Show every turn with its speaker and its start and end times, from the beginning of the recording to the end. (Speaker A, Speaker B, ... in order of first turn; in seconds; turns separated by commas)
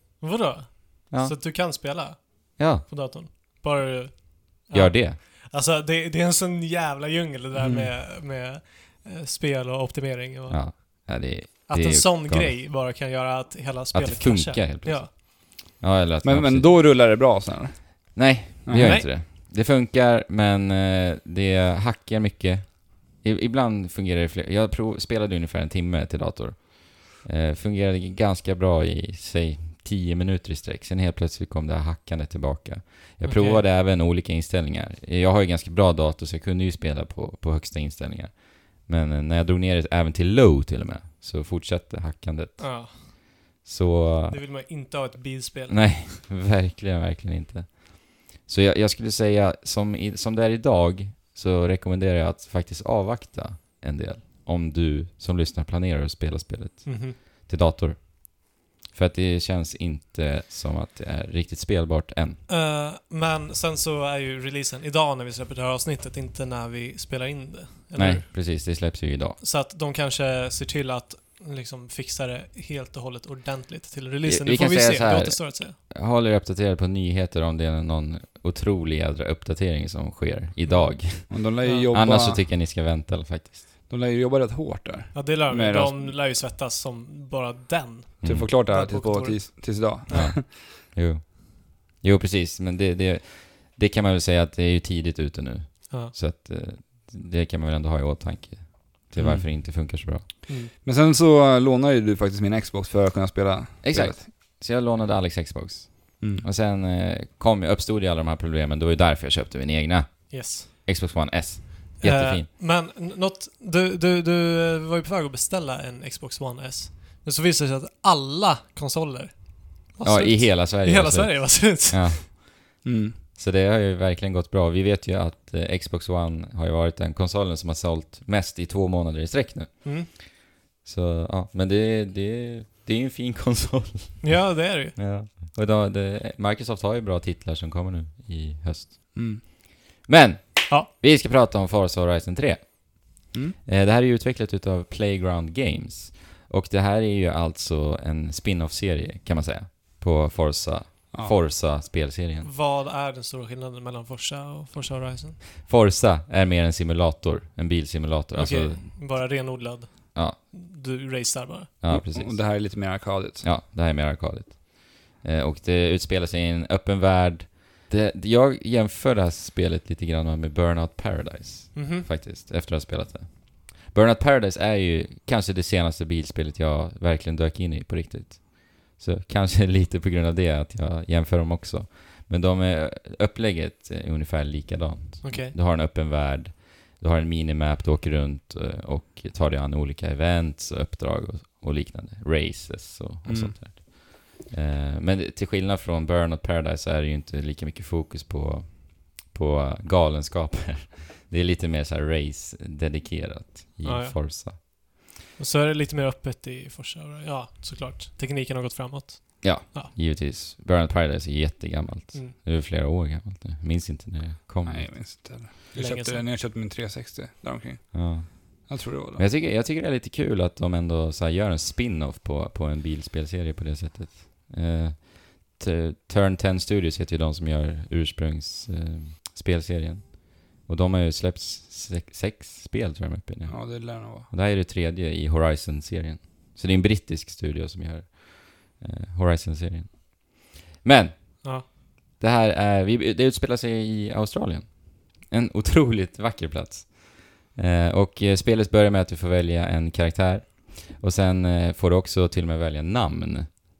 Speaker A: 0.2-11.1, Speaker B: 1.1-1.4, Speaker B: 2.6-2.9, Speaker B: 4.7-5.2, Speaker C: 7.5-7.9, Speaker B: 10.5-12.6, Speaker A: 11.7-15.1, Speaker B: 13.9-16.9, Speaker C: 16.2-19.0, Speaker B: 18.1-44.5, Speaker A: 18.7-19.1, Speaker A: 33.2-33.6, Speaker A: 42.6-43.1, Speaker A: 44.3-46.1, Speaker B: 45.7-62.4, Speaker A: 56.9-57.2, Speaker A: 62.5-68.3, Speaker B: 68.0-69.4, Speaker A: 69.4-75.8, Speaker B: 74.2-83.7, Speaker A: 80.7-81.9, Speaker C: 81.2-82.4, Speaker C: 83.9-86.2, Speaker A: 85.1-90.3, Speaker B: 88.2-88.5, Speaker C: 88.2-90.5, Speaker B: 90.1-100.3, Speaker C: 99.2-99.5, Speaker C: 100.7-104.2, Speaker B: 103.8-112.5, Speaker C: 106.2-106.4, Speaker A: 110.3-110.7, Speaker A: 112.0-122.2, Speaker B: 120.0-152.5, Speaker C: 122.8-123.2, Speaker A: 129.8-130.1, Speaker A: 134.2-135.0, Speaker C: 139.1-139.4, Speaker A: 152.4-155.4, Speaker B: 155.6-159.0, Speaker A: 158.3-161.7, Speaker B: 161.8-204.6, Speaker C: 161.9-163.5, Speaker A: 171.7-172.1, Speaker A: 185.2-185.5, Speaker C: 193.2-193.6, Speaker A: 203.8-209.9, Speaker B: 209.4-215.0, Speaker C: 214.6-219.2, Speaker A: 215.7-216.2, Speaker B: 217.9-253.5, Speaker C: 233.4-234.3